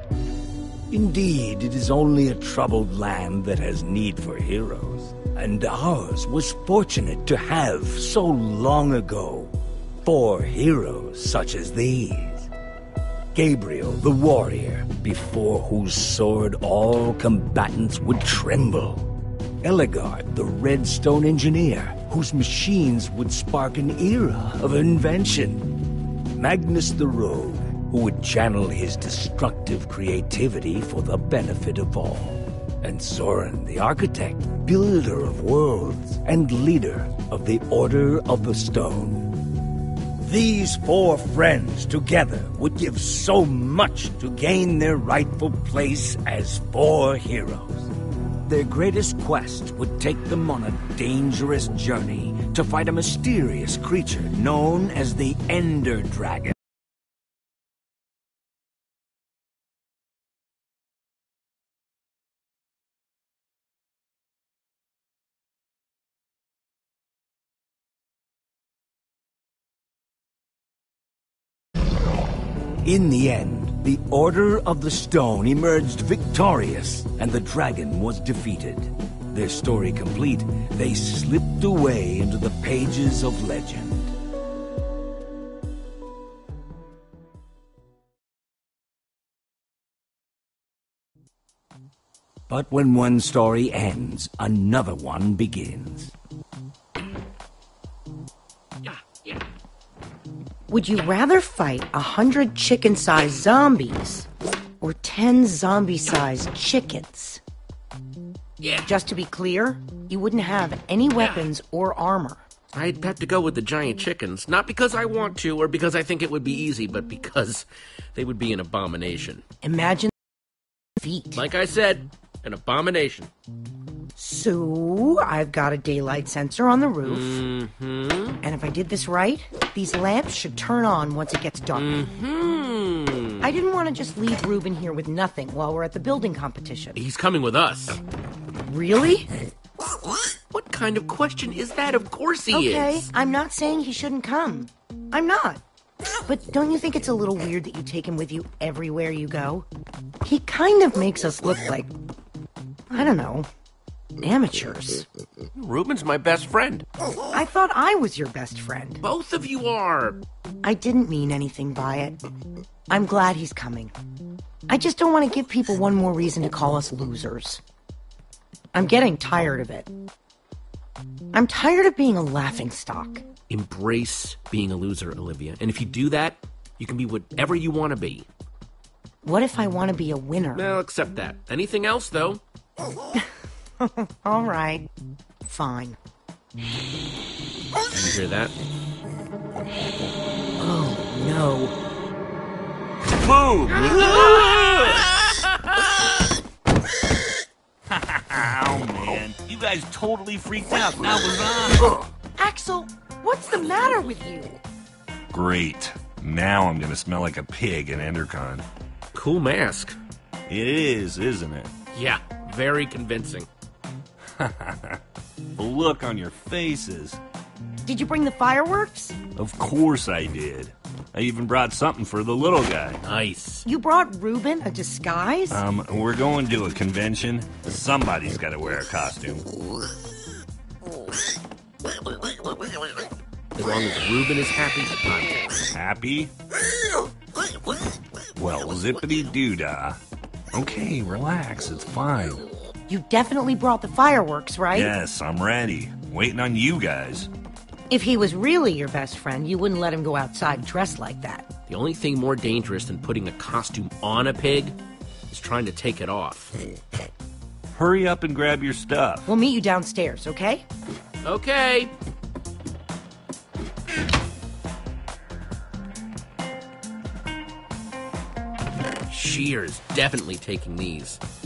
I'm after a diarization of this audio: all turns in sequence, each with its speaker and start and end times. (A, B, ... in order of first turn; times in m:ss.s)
0:00.9-0:12.5 A
0:13.3-0:19.1 A
0:19.6-0:25.8 A
0:26.3-0:39.4 A
0:40.2-0:47.9 A
0:48.4-0:56.6 A
1:12.8-1:24.1 A
1:32.5-1:36.1 A
1:38.8-1:39.4 B
1:40.7-1:44.3 C
1:44.8-1:47.4 C
1:48.6-1:48.9 B
1:48.8-1:52.4 C
1:51.2-1:51.5 B
1:52.7-1:59.4 B
1:59.6-2:00.1 C
2:01.0-2:01.4 C
2:01.3-2:03.3 B
2:04.2-2:07.4 C
2:07.0-2:08.4 B
2:08.4-2:12.0 C
2:11.7-2:13.5 B
2:13.4-2:17.0 C
2:16.9-2:18.0 B
2:18.7-2:19.3 C
2:20.5-2:23.1 B
2:22.5-2:25.6 C
2:26.2-2:29.7 C
2:30.2-2:31.9 C
2:32.9-2:33.5 C
2:34.2-2:35.1 C
2:35.6-2:36.8 B
2:37.3-2:39.0 C
2:39.0-2:40.2 B
2:40.6-2:42.2 C
2:42.9-2:43.9 C
2:44.7-2:47.6 C
2:48.7-2:49.9 C
2:51.3-2:53.2 C
2:53.5-2:58.3 B
2:59.2-3:00.7 C
3:00.5-3:02.4 B
3:03.8-3:04.9 C
3:05.4-3:06.0 C
3:07.9-3:08.5 B
3:10.6-3:11.7 C
3:13.1-3:15.1 D
3:14.1-3:14.9 B
3:17.9-3:22.1 D
3:22.4-3:24.6 C
3:25.3-3:28.6 D
3:29.1-3:30.0 B
3:30.5-3:31.7 D
3:31.9-3:33.5 B
3:34.4-3:35.0 D
3:35.6-3:37.2 D
3:37.8-3:39.2 C
3:39.4-3:43.0 D
3:43.0-3:43.6 B
3:43.6-3:45.6 C
3:45.5-3:49.5 D
3:53.6-3:55.6 B
3:55.7-3:56.3 D
3:58.4-4:00.0 D
4:00.5-4:02.4 D
4:02.9-4:04.9 C
4:04.7-4:07.3 D
4:07.9-4:11.5 C
4:11.7-4:14.8 B
4:15.3-4:16.6 B
4:17.7-4:19.3 D
4:19.3-4:20.6 C
4:21.2-4:21.9 B
4:29.1-4:31.2 B